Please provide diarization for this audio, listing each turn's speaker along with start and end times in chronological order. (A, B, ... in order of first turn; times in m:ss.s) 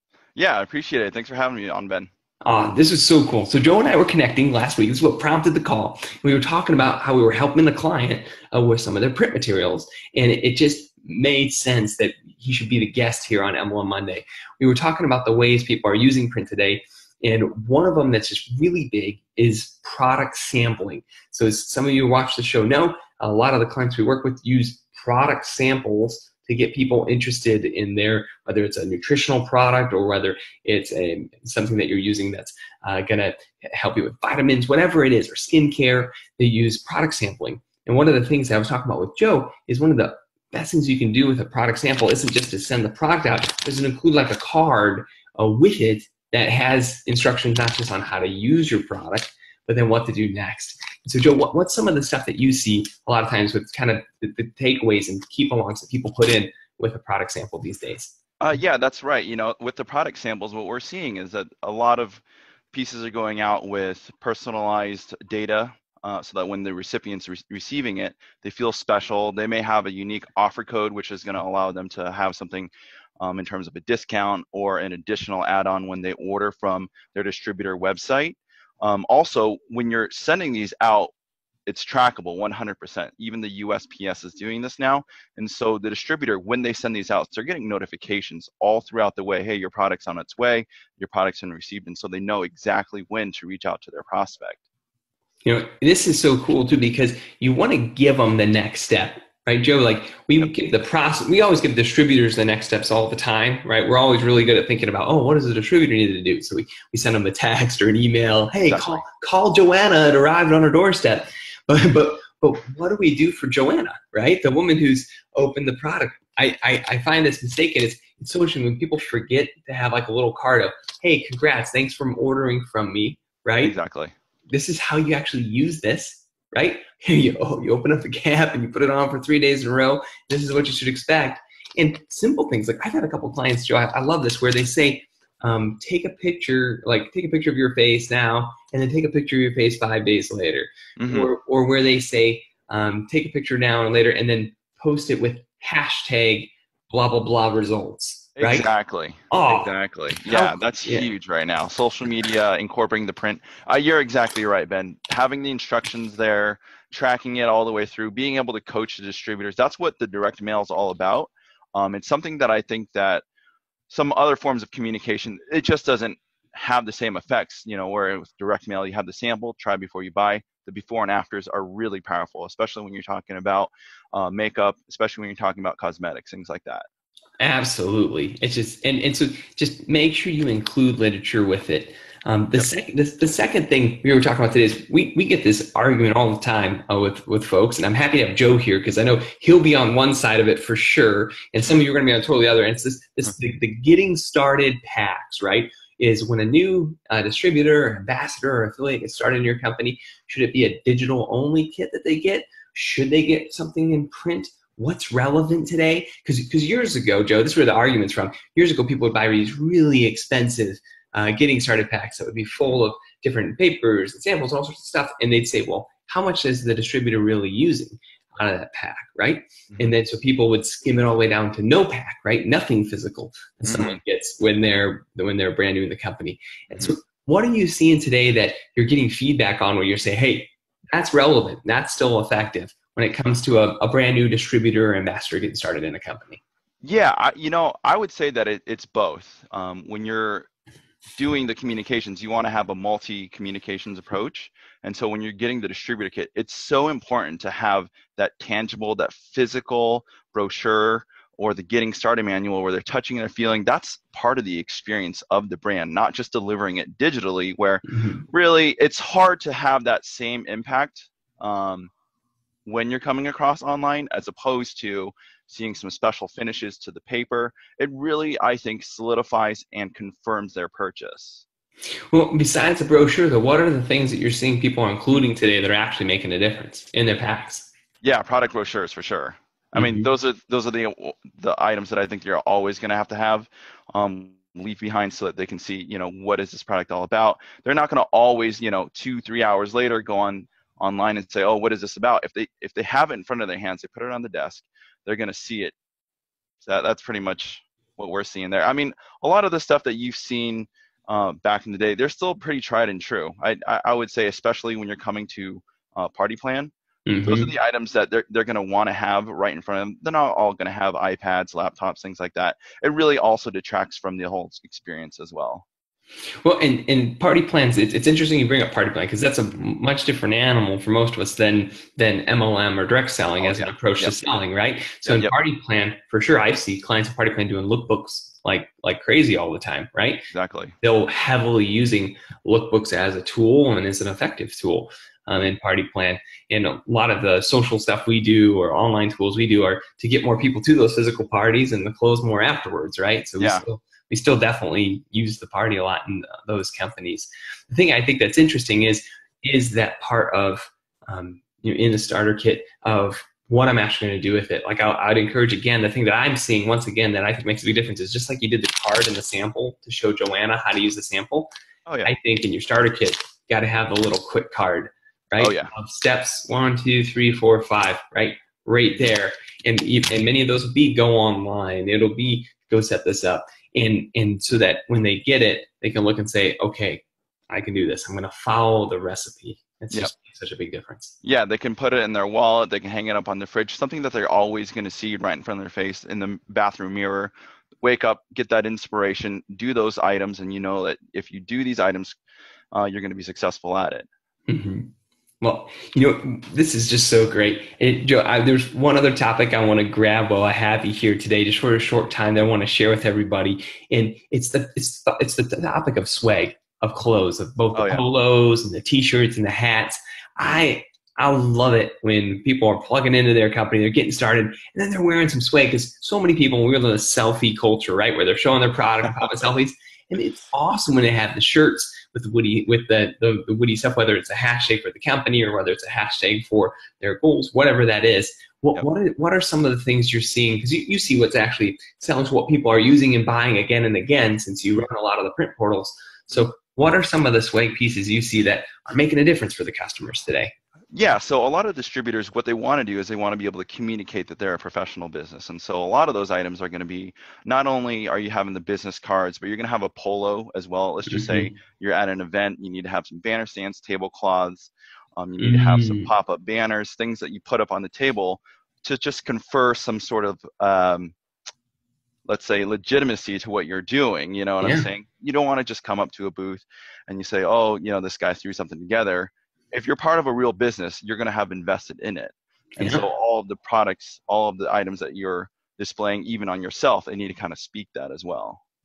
0:00.4-0:02.1 A
0:02.4-0:58.2 B
0:58.4-1:21.1 A
1:21.6-1:34.6 A
1:35.4-2:03.7 B
1:48.7-1:49.0 A
2:03.6-2:04.1 A
2:04.5-2:28.7 B
2:21.0-2:21.3 A
2:28.4-2:43.2 A
2:29.3-2:29.7 B
2:30.3-2:31.1 B
2:43.9-2:56.8 A
2:57.4-3:56.4 B
3:43.6-3:44.0 A
3:56.8-4:00.5 A
4:01.2-4:21.9 A
4:17.8-4:18.2 B
4:22.6-4:31.4 A
4:32.1-4:37.7 B
4:38.0-4:55.7 A
4:39.7-4:40.1 B
4:56.6-5:06.7 A
5:07.1-5:07.5 B
5:07.2-5:15.6 A
5:16.4-5:30.3 B
5:23.4-5:24.3 A
5:25.0-5:25.3 A
5:30.3-5:30.7 A
5:30.8-6:01.5 B
5:43.4-5:43.6 A
6:01.9-6:02.1 A
6:02.0-6:21.1 B
6:05.4-6:05.7 A
6:21.2-6:32.2 A
6:32.7-6:34.1 A
6:34.5-7:20.5 B
6:47.7-6:48.0 A
6:59.2-6:59.4 A
7:20.9-7:41.1 A
7:31.0-7:31.5 B
7:35.4-7:36.1 B
7:42.2-7:58.6 A
7:44.6-7:44.9 B